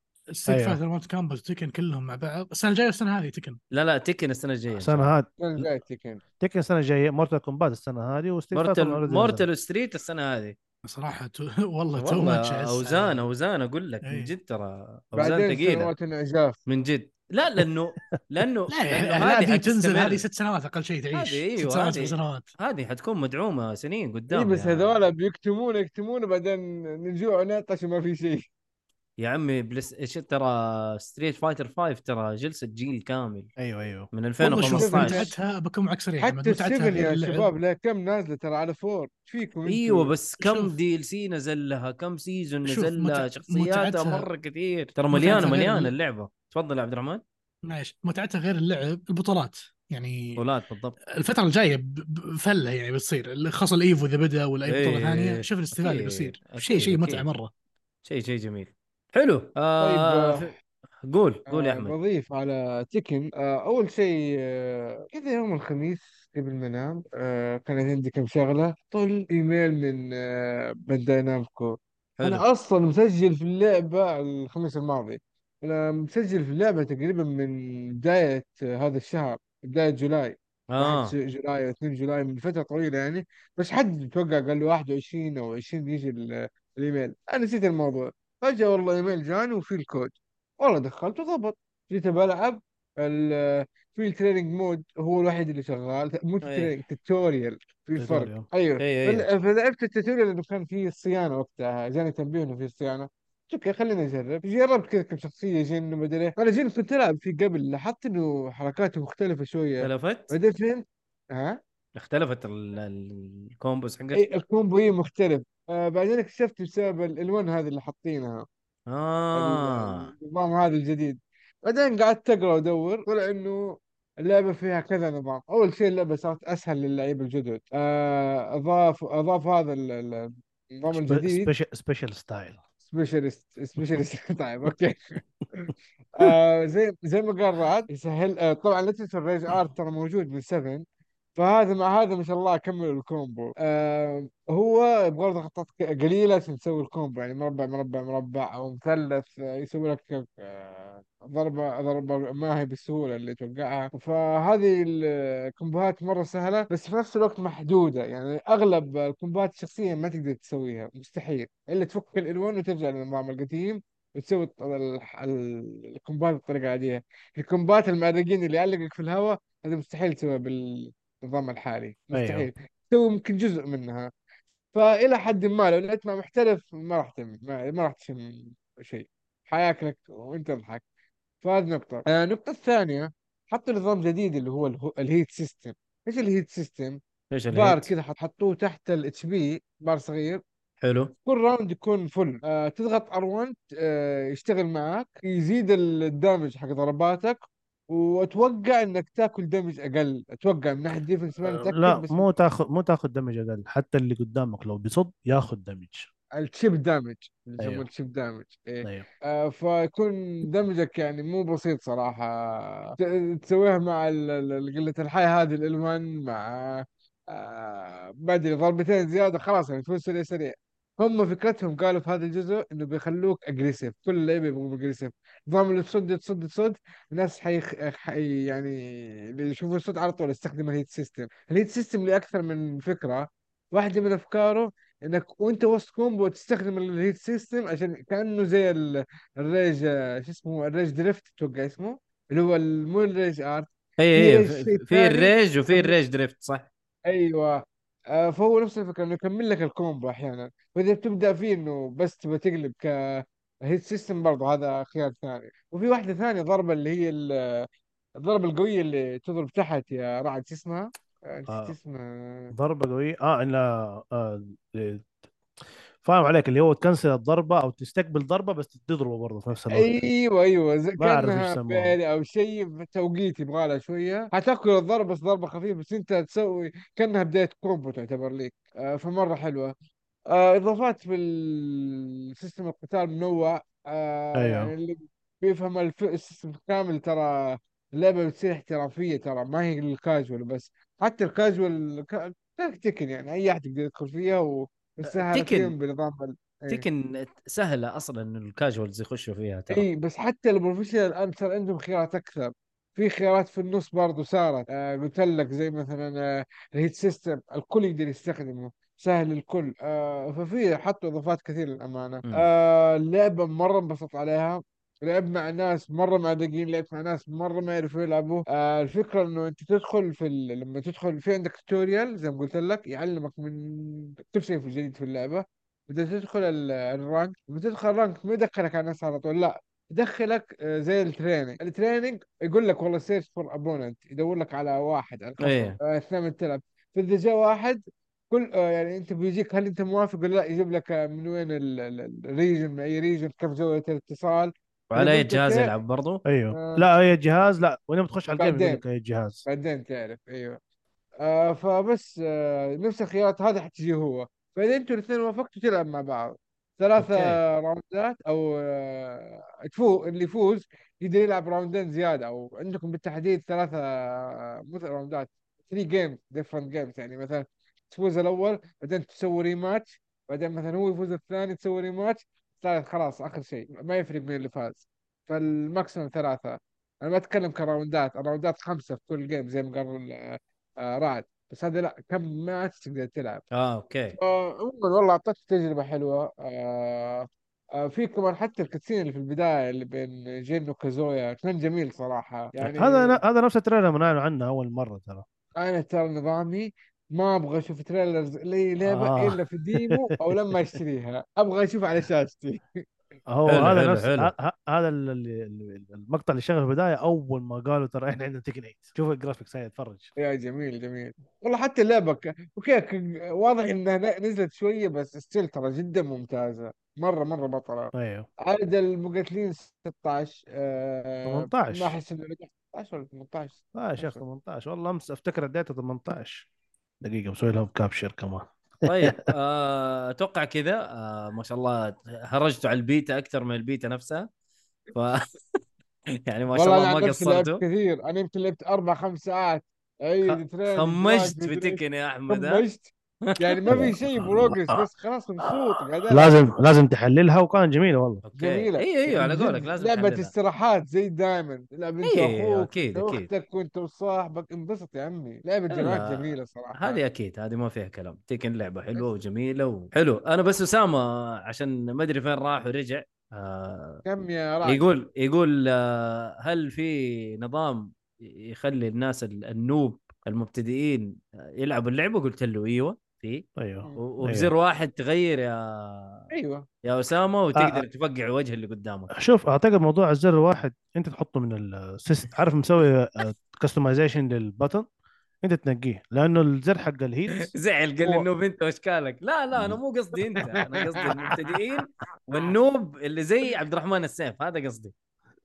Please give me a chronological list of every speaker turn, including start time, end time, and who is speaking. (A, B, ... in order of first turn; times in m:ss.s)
0:00.3-0:03.6 A
0:00.4-0:00.8 B
0:03.7-0:05.1 C
0:04.7-0:05.7 B
0:05.4-0:06.2 D
0:06.4-0:09.4 B
0:08.5-0:10.6 C
0:10.8-0:13.2 A
0:12.0-0:15.9 C
0:14.0-0:14.3 A
0:15.1-0:16.6 D
0:16.7-0:20.2 C
0:18.7-0:22.5 A
0:21.1-0:25.0 C
0:24.3-0:28.4 D
0:29.2-0:33.5 C
0:33.6-0:34.1 B
0:34.1-0:35.3 C
0:34.4-0:37.4 A
0:34.6-0:35.3 D
0:36.2-0:40.1 D
0:39.7-0:47.2 C
0:40.4-0:40.7 A
0:42.7-0:44.3 A
0:45.1-0:45.9 A
0:47.7-0:50.4 A
0:50.4-0:51.0 C
0:51.2-0:57.5 A
0:54.7-0:57.3 C
0:58.0-1:00.5 C
0:59.8-1:00.5 D
1:01.0-1:01.9 C
1:01.5-1:51.6 D
1:12.2-1:12.4 C
1:20.7-1:21.1 C
1:36.4-1:36.7 C
1:38.0-1:38.4 B
1:38.8-1:39.3 C
1:49.8-1:50.3 C
1:52.0-1:54.2 C
1:54.1-1:58.4 D
1:58.9-2:00.1 C
1:59.4-2:11.5 D
2:10.9-2:12.6 B
2:12.9-2:20.8 D
2:21.4-2:54.1 D
2:52.1-2:52.5 B
2:54.7-3:00.8 D
3:01.4-3:07.0 D
3:07.3-3:07.9 C
3:07.5-3:10.4 D
3:10.8-3:11.1 C
3:11.2-3:22.2 D
3:21.5-3:26.1 B
3:26.4-3:48.8 D
3:27.6-3:27.9 B
3:49.4-4:06.0 D
4:04.0-4:06.7 C
4:07.1-4:07.6 D
4:08.2-4:17.6 D
4:18.2-4:22.5 D
4:21.5-4:21.7 B
4:22.5-4:25.1 B
4:26.0-4:29.9 B
4:29.7-4:39.7 D
4:31.0-4:32.0 B
4:40.3-4:56.8 D
4:44.4-4:44.7 B
4:55.1-4:55.7 C
4:56.7-4:59.9 C
4:59.7-5:06.2 D
5:06.7-5:45.7 D
5:35.4-5:35.8 C
5:44.9-5:46.2 C
5:46.2-5:49.4 B
5:46.5-5:46.8 D
5:48.3-5:48.8 D
5:49.4-5:50.6 D
5:51.2-6:23.4 D
5:57.0-5:57.4 C
6:23.5-6:24.2 C
6:24.2-6:27.3 D
6:27.8-6:33.2 D
6:32.6-6:35.3 B
6:35.6-6:42.6 D
6:38.9-6:40.0 B
6:43.3-6:50.1 B
6:43.5-6:44.3 C
6:50.2-6:57.9 D
6:58.0-6:58.3 B
6:58.5-7:04.2 D
7:01.3-7:02.0 B
7:03.7-7:06.4 B
7:07.0-7:09.2 B
7:08.9-7:14.3 C
7:14.9-7:15.6 C
7:16.3-7:17.6 C
7:16.5-7:26.4 D
7:20.2-7:22.6 C
7:23.3-7:23.6 C
7:23.7-7:24.8 B
7:26.1-7:28.2 B
7:28.2-7:30.3 C
7:28.4-7:37.0 D
7:32.0-7:33.3 C
7:35.7-7:44.0 C
7:44.0-7:44.8 D
7:44.6-7:56.3 C
7:53.6-7:54.5 B
7:56.3-7:56.6 D
7:56.8-7:59.1 C
7:57.6-7:57.8 B
7:59.1-8:04.9 B
8:05.4-8:07.5 B
8:07.5-8:14.9 C
8:09.5-8:09.8 B
8:10.7-8:11.3 D